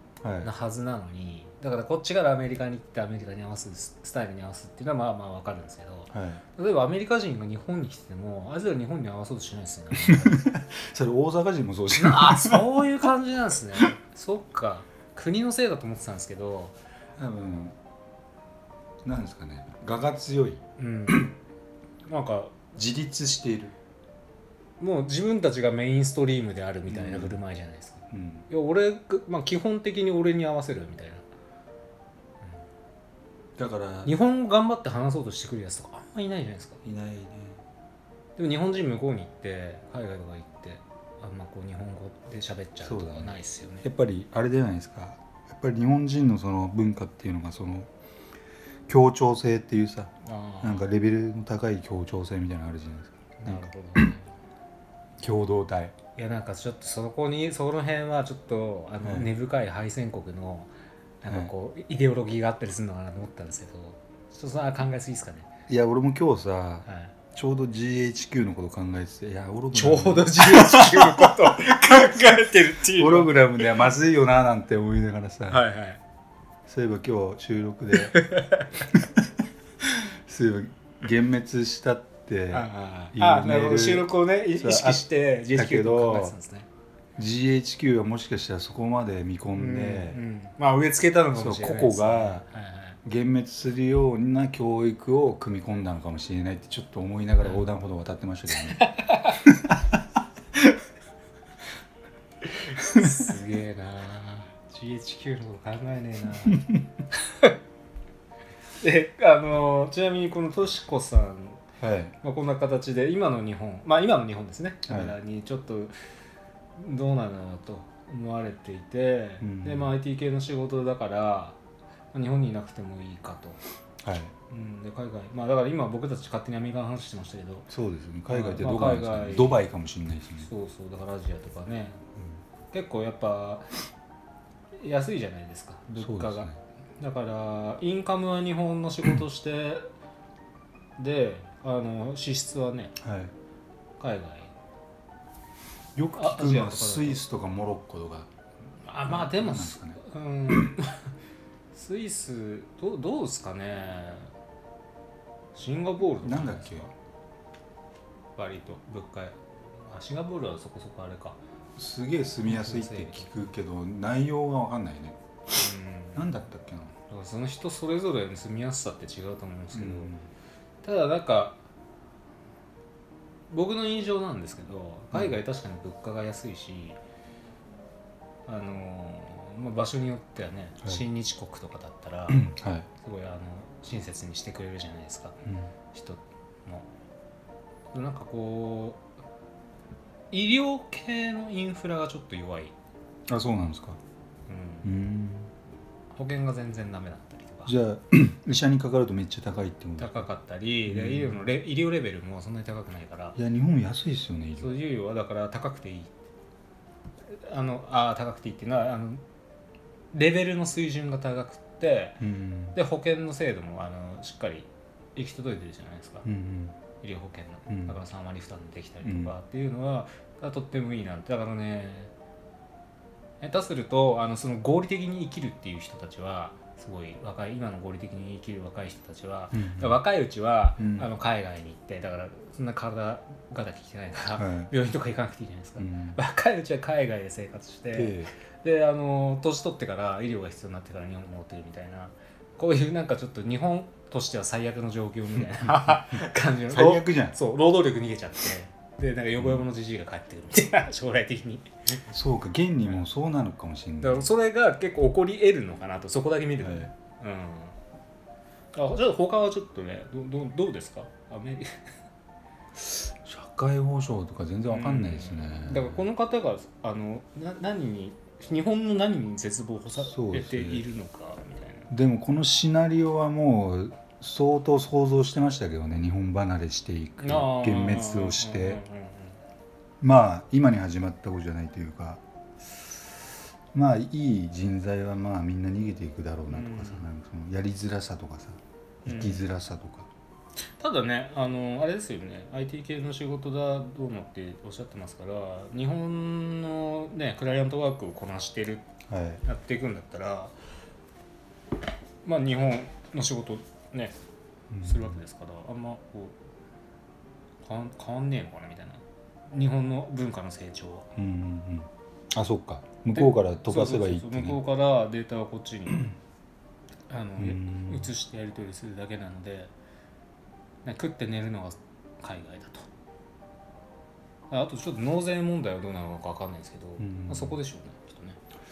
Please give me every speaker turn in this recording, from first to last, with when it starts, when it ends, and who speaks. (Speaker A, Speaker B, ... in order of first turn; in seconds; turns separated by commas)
Speaker A: 0.2-0.5, Speaker B: 0.4-10.5, Speaker A: 6.1-6.4, Speaker A: 9.9-13.1, Speaker B: 11.9-16.8, Speaker A: 17.2-17.8, Speaker A: 19.0-21.4, Speaker B: 20.8-21.4, Speaker B: 22.1-22.7, Speaker A: 22.7-23.8, Speaker B: 24.8-31.2, Speaker A: 26.9-27.4, Speaker A: 28.1-28.5, Speaker A: 33.6-34.1, Speaker B: 34.0-36.8, Speaker A: 36.8-37.6, Speaker B: 38.4-43.9, Speaker A: 42.8-47.9, Speaker A: 48.9-54.0, Speaker B: 50.2-50.9, Speaker B: 53.4-54.3, Speaker A: 55.2-56.0, Speaker B: 56.2-60.7, Speaker A: 59.0-59.3, Speaker B: 61.2-65.5, Speaker A: 61.2-61.5, Speaker A: 65.7-71.7, Speaker B: 66.9-67.1, Speaker B: 69.7-73.8, Speaker A: 72.9-75.7, Speaker B: 75.5-76.0, Speaker A: 76.7-78.2, Speaker B: 78.1-79.0, Speaker A: 79.8-86.4, Speaker B: 82.5-86.7, Speaker A: 87.2-90.2, Speaker B: 89.5-93.0, Speaker A: 91.3-92.5, Speaker A: 93.0-98.8, Speaker B: 97.4-97.7, Speaker B: 98.7-99.4, Speaker A: 99.5-100.0, Speaker B: 102.6-107.5, Speaker B: 108.8-111.6, Speaker A: 111.8-112.2, Speaker B: 112.2-115.9, Speaker A: 114.8-115.2, Speaker B: 116.8-121.6, Speaker A: 119.4-120.0, Speaker B: 122.1-123.6, Speaker A: 124.0-124.3, Speaker B: 124.5-127.7, Speaker A: 127.7-130.5, Speaker B: 128.3-129.6, Speaker B: 130.4-132.0, Speaker B: 132.7-133.7, Speaker B: 134.8-139.8, Speaker A: 135.9-136.6, Speaker B: 141.0-142.9, Speaker A: 143.0-143.3, Speaker B: 144.0-144.5, Speaker A: 146.0-148.3, Speaker B: 146.2-147.2, Speaker B: 148.8-151.1, Speaker A: 149.0-150.7, Speaker B: 151.7-154.3, Speaker B: 155.5-156.9, Speaker A: 156.2-156.9, Speaker B: 158.4-161.4, Speaker A: 161.8-165.2, Speaker B: 162.4-163.3, Speaker B: 165.6-166.4, Speaker A: 166.1-166.9, Speaker B: 167.1-170.1, Speaker A: 169.7-170.3, Speaker B: 170.8-171.6, Speaker B: 173.5-177.0, Speaker A: 175.1-175.4, Speaker B: 178.5-182.5, Speaker A: 182.3-182.9, Speaker B: 183.0-185.4, Speaker A: 185.4-185.7, Speaker B: 185.9-186.9, Speaker B: 187.9-189.0, Speaker B: 190.3-192.8, Speaker A: 193.3-194.0, Speaker B: 194.5-194.9, Speaker A: 194.8-195.5, Speaker B: 196.1-197.7, Speaker A: 197.7-200.3, Speaker B: 200.0-203.4, Speaker A: 200.9-201.5, Speaker A: 203.4-204.8, Speaker B: 204.6-206.1, Speaker B: 207.3-209.2, Speaker B: 210.1-212.2, Speaker A: 212.2-212.8, Speaker B: 212.7-216.3, Speaker A: 216.2-216.8, Speaker B: 217.0-222.1, Speaker A: 217.7-218.0, Speaker A: 219.0-219.3, Speaker B: 223.4-252.0, Speaker A: 229.5-230.0, Speaker A: 230.8-231.1, Speaker A: 234.4-234.7, Speaker A: 235.8-236.2, Speaker A: 237.9-238.3, Speaker A: 245.4-247.4, Speaker A: 252.1-254.3, Speaker B: 254.0-257.8, Speaker A: 256.6-256.9, Speaker B: 258.7-261.7, Speaker A: 262.8-266.1, Speaker B: 264.7-271.9, Speaker A: 270.0-270.9, Speaker A: 271.9-278.8, Speaker B: 277.2-279.4, Speaker A: 280.0-282.2, Speaker A: 283.7-290.1, Speaker B: 286.5-287.1, Speaker B: 289.1-289.5, Speaker B: 290.8-298.9, Speaker A: 299.1-299.4, Speaker B: 299.4-300.5, Speaker B: 302.2-304.2, Speaker A: 304.7-305.2, Speaker B: 304.8-306.4, Speaker B: 307.6-311.1, Speaker A: 311.2-314.6, Speaker B: 313.1-316.1, Speaker B: 317.1-319.7, Speaker A: 317.4-318.1, Speaker B: 320.9-322.9, Speaker B: 324.5-328.4, Speaker A: 327.0-327.6